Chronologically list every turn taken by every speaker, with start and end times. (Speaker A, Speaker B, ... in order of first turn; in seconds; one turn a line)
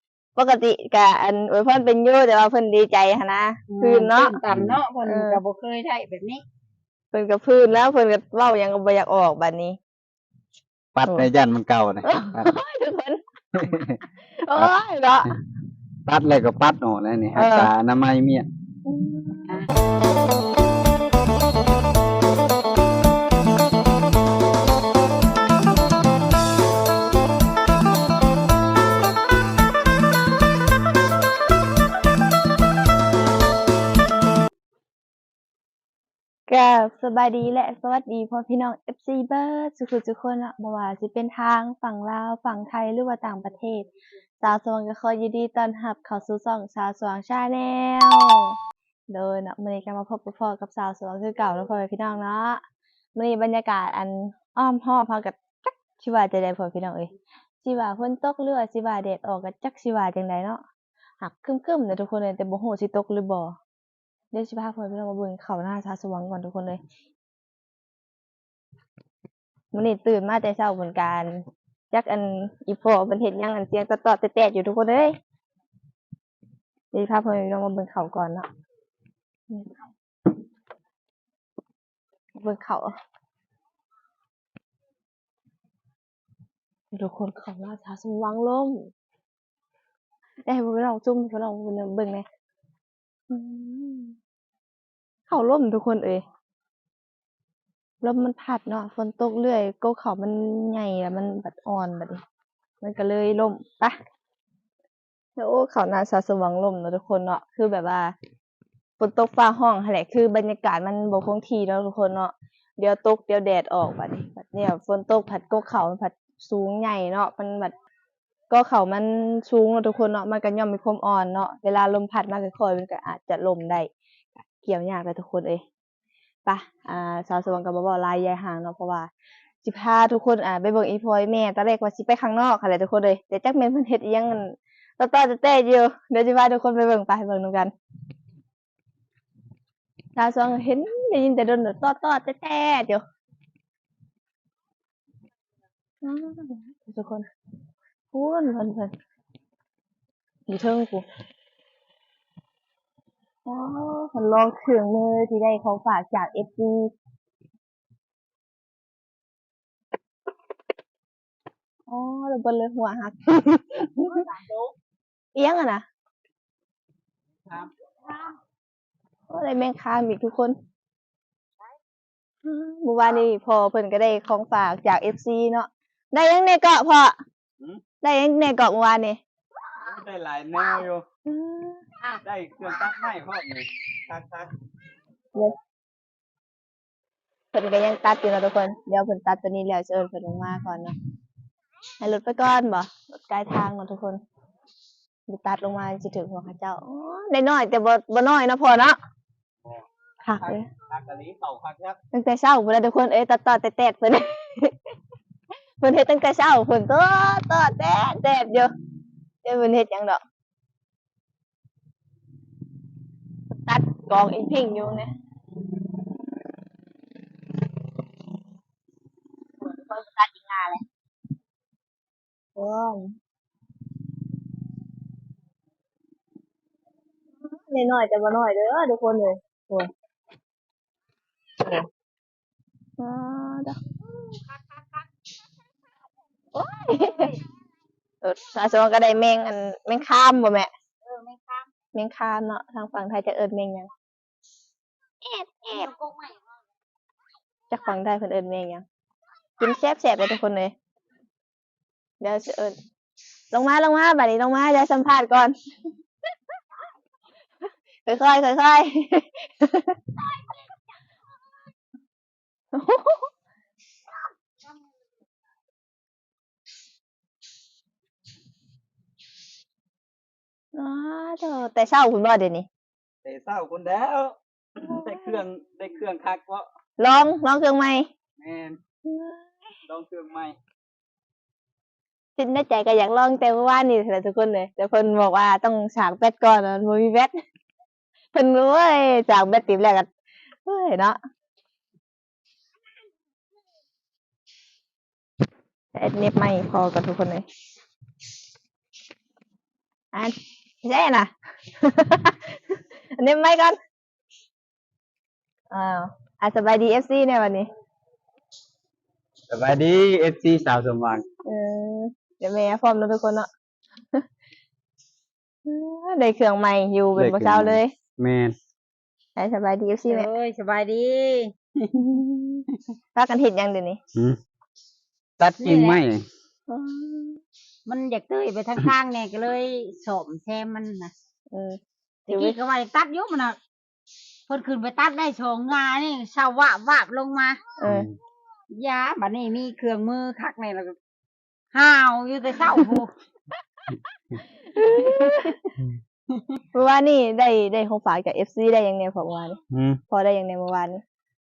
Speaker A: 0.4-4.4
Speaker B: 3.7-6.4
Speaker C: 4.5-4.8
Speaker A: 5.0-5.4
Speaker A: 7.1-9.8
Speaker C: 10.9-12.5
Speaker A: 12.1-13.2
Speaker C: 13.5-14.0
Speaker A: 14.3-15.3
Speaker C: 16.1-18.5
Speaker A: 17.4-17.7
Speaker A: 18.9-19.6
Speaker A: 36.5-43.9
Speaker A: 44.4-48.5
Speaker A: 49.1-52.6
Speaker A: 53.2-57.1
Speaker A: 57.6-60.6
Speaker A: 61.2-63.6
Speaker A: 64.3-66.8
Speaker A: 69.7-75.1
Speaker A: 76.9-78.5
Speaker A: 82.4-82.9
Speaker A: 86.9-88.9
Speaker A: 90.5-92.2
Speaker A: 93.3-94.2
Speaker A: 95.3-96.2
Speaker A: 98.0-102.2
Speaker A: 102.8-104.0
Speaker A: 105.4-108.1
Speaker A: 109.0-117.8
Speaker A: 118.5-123.9
Speaker A: 124.6-125.6
Speaker A: 126.5-129.1
Speaker A: 129.6-137.7
Speaker A: 140.2-143.0
Speaker A: 146.0-147.3
Speaker A: 148.1-148.9
Speaker A: 150.5-151.1
Speaker A: 153.5-156.9
Speaker A: 161.9-164.1
Speaker B: 163.9-164.7
Speaker A: 165.3-165.9
Speaker B: 167.5-168.3
Speaker A: 169.3-170.6
Speaker A: 172.4-177.2
Speaker A: 178.0-179.2
Speaker C: 179.8-181.0
Speaker A: 181.3-181.8
Speaker C: 182.2-184.5
Speaker A: 187.5-190.9
Speaker A: 192.0-194.2
Speaker A: 195.3-199.0
Speaker A: 200.2-200.7
Speaker C: 200.4-202.0
Speaker A: 202.1-204.7
Speaker A: 205.8-208.7
Speaker A: 209.4-210.2
Speaker A: 213.7-215.1
Speaker A: 219.6-220.8
Speaker A: 222.6-223.1
Speaker A: 227.5-229.9
Speaker A: 233.0-233.8
Speaker B: 234.0-235.1
Speaker A: 236.5-237.3
Speaker B: 236.9-237.4
Speaker A: 238.2-240.7
Speaker B: 241.0-241.7
Speaker A: 241.9-243.9
Speaker A: 245.2-245.9
Speaker B: 245.7-246.5
Speaker A: 247.7-248.8
Speaker A: 249.6-250.7
Speaker A: 252.2-252.7
Speaker A: 253.5-255.6
Speaker A: 258.1-260.0
Speaker A: 262.7-263.3
Speaker A: 270.8-272.7
Speaker C: 273.2-276.7
Speaker A: 274.8-275.4
Speaker A: 277.0-278.1
Speaker C: 278.4-278.8
Speaker A: 279.1-279.5
Speaker C: 279.9-280.6
Speaker A: 282.4-287.3
Speaker A: 288.3-290.1
Speaker A: 290.6-291.2
Speaker A: 295.9-297.4
Speaker A: 300.1-303.8
Speaker A: 305.7-307.7
Speaker C: 309.5-311.2
Speaker A: 311.5-313.5
Speaker A: 315.7-317.9
Speaker C: 317.2-318.6
Speaker A: 319.4-320.3
Speaker B: 320.1-322.2
Speaker A: 321.9-324.0
Speaker C: 325.4-326.2
Speaker B: 325.6-326.0
Speaker A: 326.7-327.4
Speaker B: 327.9-331.1
Speaker A: 331.5-332.6
Speaker B: 332.3-333.6
Speaker B: 334.5-337.6
Speaker A: 337.8-338.1
Speaker C: 337.9-338.1
Speaker B: 338.7-340.9
Speaker B: 341.7-343.1
Speaker A: 344.7-345.6
Speaker B: 344.9-345.6
Speaker B: 346.3-346.6
Speaker A: 346.7-349.6
Speaker C: 349.7-350.0
Speaker A: 350.1-351.0